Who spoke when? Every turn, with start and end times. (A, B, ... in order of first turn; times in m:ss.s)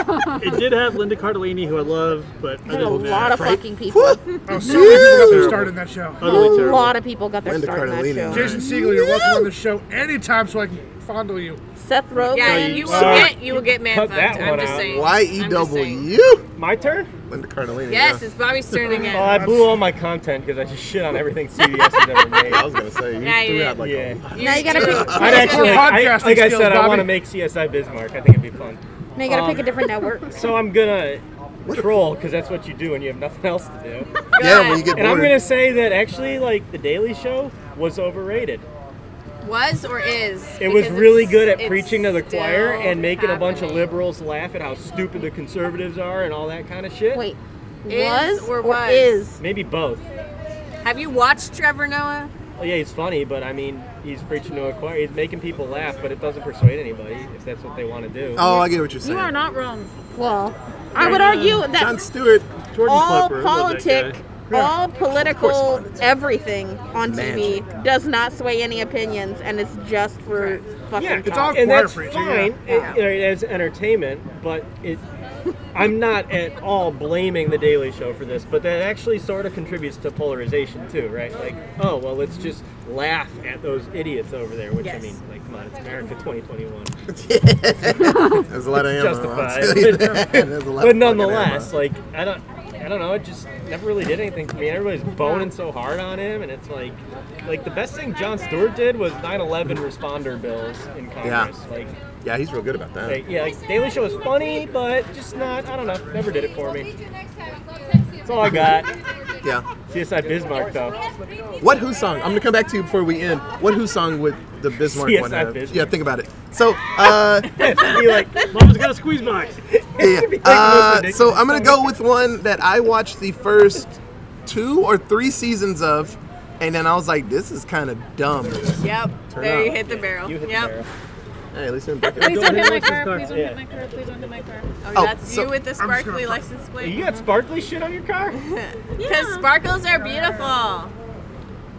0:00.3-0:03.6 A
0:02.7-0:05.3 B
0:03.0-0:05.7 C
0:04.5-0:06.4 D
0:04.8-0:07.0 A
0:06.2-0:09.5 B
0:07.4-0:08.6 C
0:08.3-0:11.6 D
0:11.8-0:13.2 B
0:12.2-0:13.6 A
0:12.3-0:16.1 E
0:12.9-0:15.0 F
0:14.7-0:16.5 C
0:16.6-0:17.1 F
0:17.3-0:18.2 C
0:17.9-0:19.5 E
0:18.7-0:19.2 A
0:18.9-0:22.7 F
0:19.2-0:19.8 D
0:22.4-0:25.6 C
0:23.2-0:26.0 E
0:23.8-0:24.3 F
0:24.2-0:25.1 A
0:24.4-0:25.6 B
0:25.0-0:27.2 D
0:25.0-0:29.7 F
0:29.2-0:30.5 B
0:30.3-0:34.1 F
0:31.6-0:31.9 C
0:34.4-0:35.1 E
0:34.4-0:35.4 C
0:35.0-0:38.7 F
0:39.4-0:43.9 E
0:40.6-0:47.2 F
0:47.1-0:49.4 B
0:47.9-0:49.2 E
0:49.4-0:50.0 F
0:50.8-0:52.3 E
0:52.6-0:58.5 F
0:58.3-0:59.3 C
0:58.4-0:59.9 G
1:00.2-1:02.1 B
1:01.0-1:01.7 A
1:01.7-1:02.5 C
1:02.7-1:04.8 A
1:02.8-1:11.6 B
1:05.1-1:06.2 C
1:07.0-1:07.7 C
1:10.3-1:10.6 E
1:11.0-1:15.0 F
1:11.2-1:12.6 D
1:12.7-1:13.0 E
1:12.7-1:13.0 B
1:15.7-1:26.9 F
1:24.8-1:25.2 E
1:27.1-1:31.7 C
1:28.8-1:41.9 F
1:41.2-1:41.5 C
1:42.2-1:43.2 C
1:43.0-1:47.0 F
1:48.2-1:48.9 F
1:49.8-1:51.0 F
1:51.6-1:57.7 C
1:54.8-1:55.9 F
1:57.4-1:58.6 F
1:57.8-1:58.5 E
1:58.5-1:59.6 A
1:59.7-2:01.8 F
2:00.0-2:09.8 C
2:08.8-2:10.7 E
2:09.4-2:10.9 F
2:11.5-2:12.6 C
2:12.2-2:14.7 G
2:12.2-2:13.3 A
2:12.2-2:13.6 F
2:14.8-2:17.3 E
2:15.0-2:15.5 C
2:15.8-2:16.4 D
2:16.8-2:18.4 F
2:18.4-2:20.9 E
2:19.0-2:20.5 G